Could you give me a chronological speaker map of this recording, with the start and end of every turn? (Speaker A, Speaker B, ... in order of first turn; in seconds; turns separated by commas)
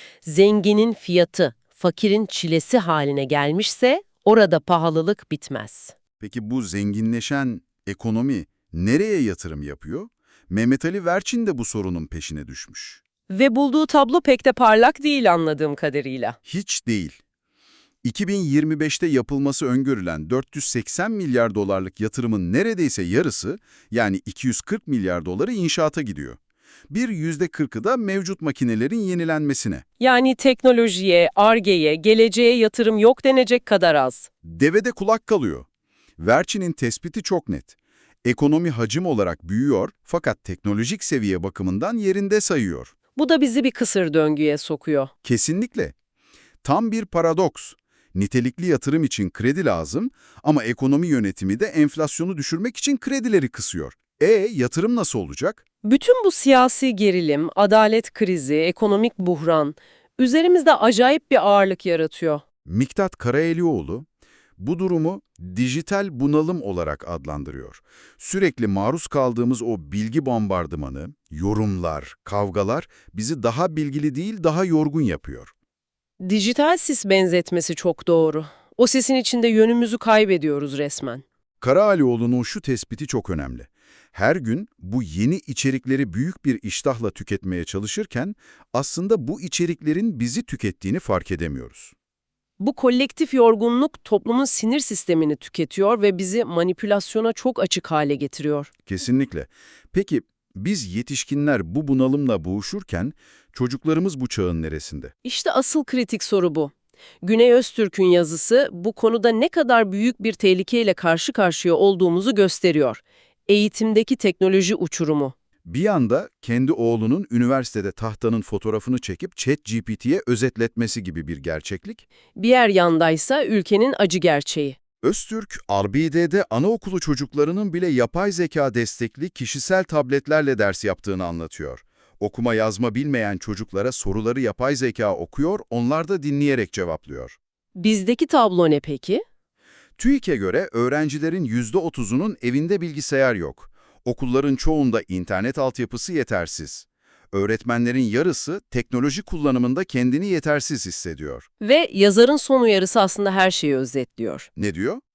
Speaker A: 0.2-6.0, Speaker B: 6.2-13.0, Speaker A: 13.3-16.4, Speaker B: 16.5-17.2, Speaker B: 18.0-26.4, Speaker B: 26.9-29.8, Speaker A: 30.0-34.3, Speaker B: 34.4-35.7, Speaker B: 36.2-42.9, Speaker A: 43.2-45.1, Speaker B: 45.2-46.0, Speaker B: 46.6-55.6, Speaker A: 55.8-62.4, Speaker B: 62.7-64.1, Speaker B: 64.6-75.5, Speaker A: 76.2-81.2, Speaker B: 81.6-91.9, Speaker A: 92.6-98.7, Speaker B: 98.9-105.1, Speaker A: 105.2-115.3, Speaker B: 115.7-122.0, Speaker A: 122.4-124.8, Speaker B: 125.0-137.4, Speaker A: 137.8-139.2, Speaker B: 140.0-151.5, Speaker A: 151.6-154.5, Speaker B: 154.6-155.0